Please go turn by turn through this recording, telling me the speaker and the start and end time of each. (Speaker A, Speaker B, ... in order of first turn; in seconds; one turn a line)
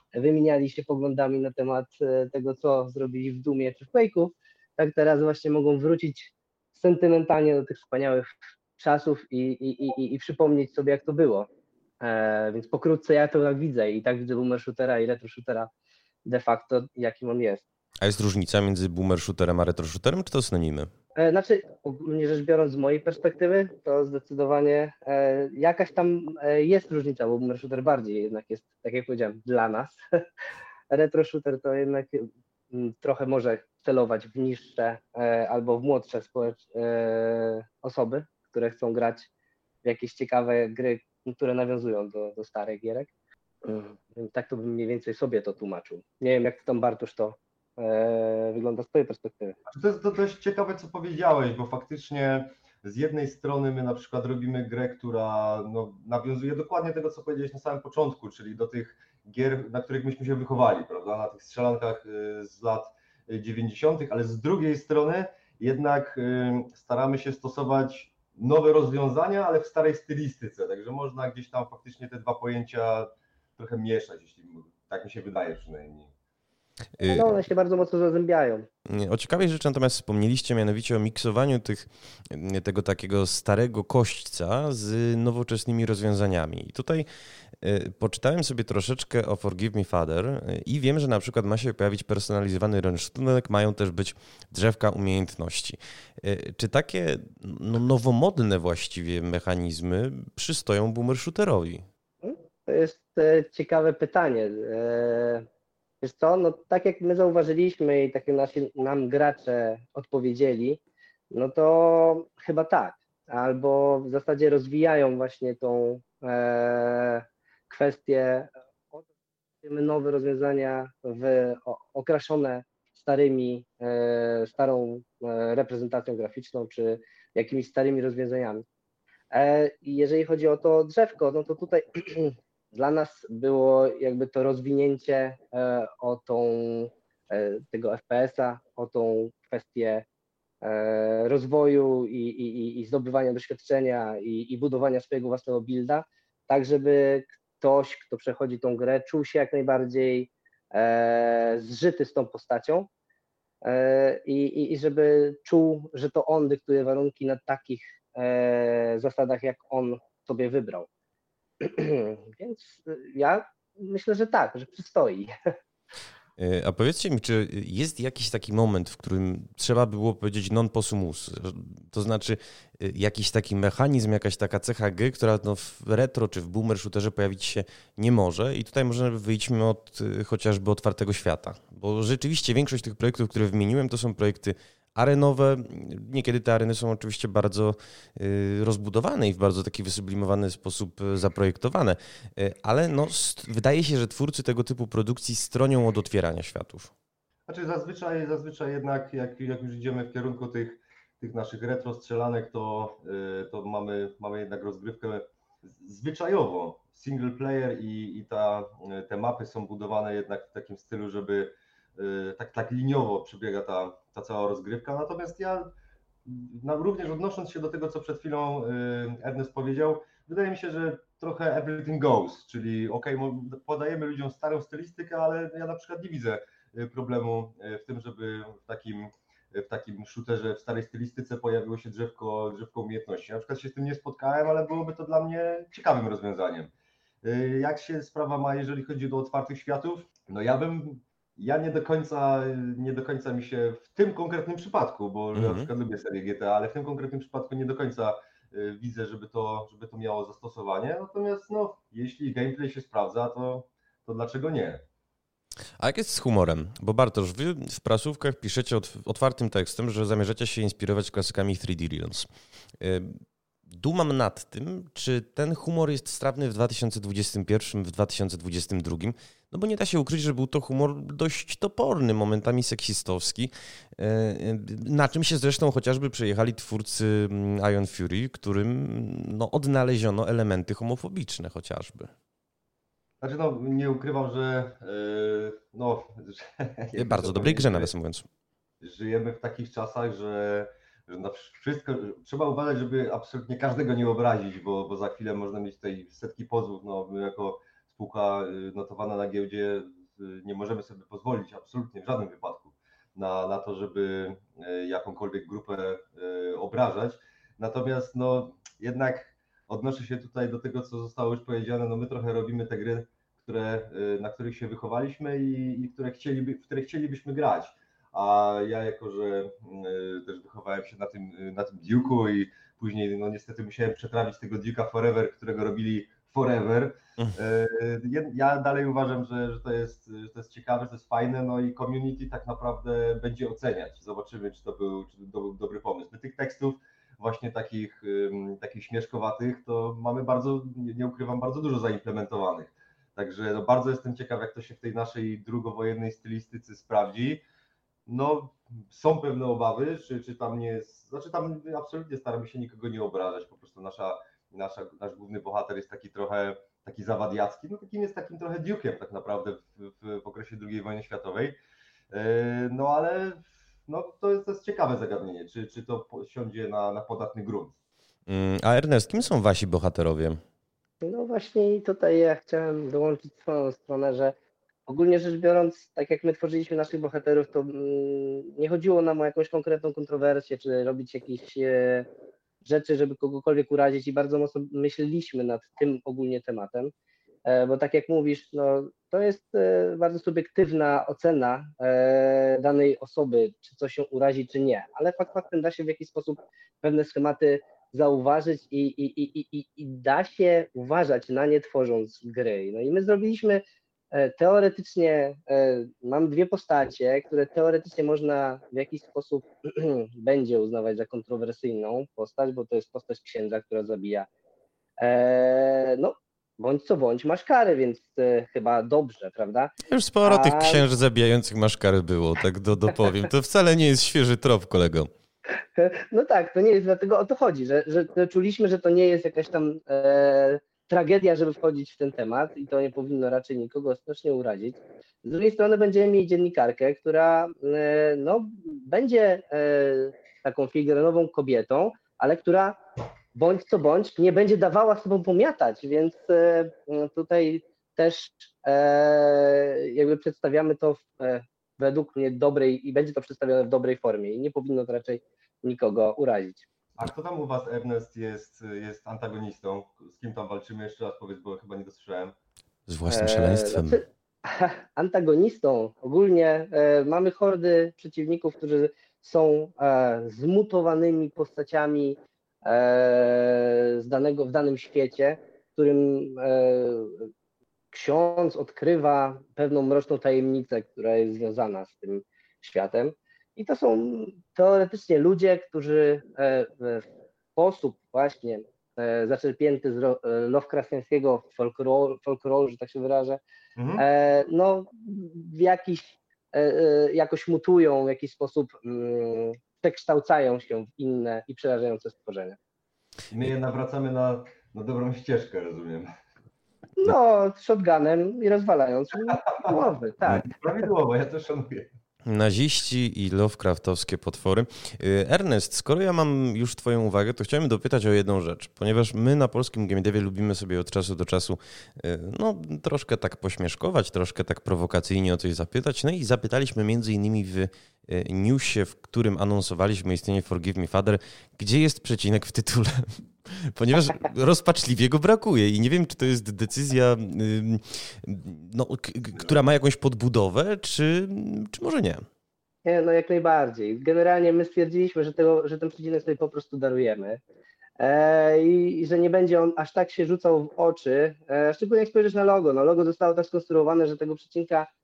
Speaker A: 0.1-11.5
Speaker A: 12.0-15.7
Speaker A: 16.3-17.6
Speaker B: 18.0-20.9
Speaker A: 21.2-30.0
Speaker A: 30.9-39.3
Speaker A: 39.8-43.1
Speaker A: 43.6-49.6
Speaker C: 49.7-76.1
Speaker B: 77.0-77.4
Speaker A: 77.0-78.7
Speaker B: 78.9-87.1
Speaker B: 87.6-101.8
Speaker A: 102.2-105.5
Speaker A: 106.0-110.8
Speaker A: 111.3-119.1
Speaker A: 119.6-128.6
Speaker A: 129.3-140.1
Speaker A: 140.6-152.9
Speaker A: 153.6-160.9
Speaker A: 161.6-165.5
Speaker B: 166.4-196.9
Speaker C: 197.5-215.7
Speaker C: 216.3-236.7
Speaker C: 237.2-254.8
Speaker B: 245.3-245.7
Speaker B: 255.8-262.3
Speaker B: 262.8-282.1
Speaker C: 283.2-287.9
Speaker B: 287.0-288.3
Speaker C: 288.8-347.4
Speaker C: 348.1-361.6
Speaker C: 362.1-367.8
Speaker B: 368.3-370.4
Speaker A: 371.0-374.3
Speaker A: 374.9-382.1
Speaker A: 382.6-386.9
Speaker A: 387.5-414.3
Speaker A: 415.0-419.7
Speaker B: 419.9-425.1
Speaker A: 420.2-420.8
Speaker A: 425.8-442.8
Speaker A: 443.4-456.7
Speaker C: 457.0-462.4
Speaker B: 462.9-464.0
Speaker A: 463.1-477.3
Speaker A: 477.9-487.1
Speaker A: 487.6-493.4
Speaker C: 493.8-494.1
Speaker A: 494.0-502.6
Speaker C: 503.3-506.1
Speaker A: 507.0-510.6
Speaker C: 510.3-511.9
Speaker B: 512.3-542.2
Speaker A: 542.9-547.4
Speaker A: 548.0-554.9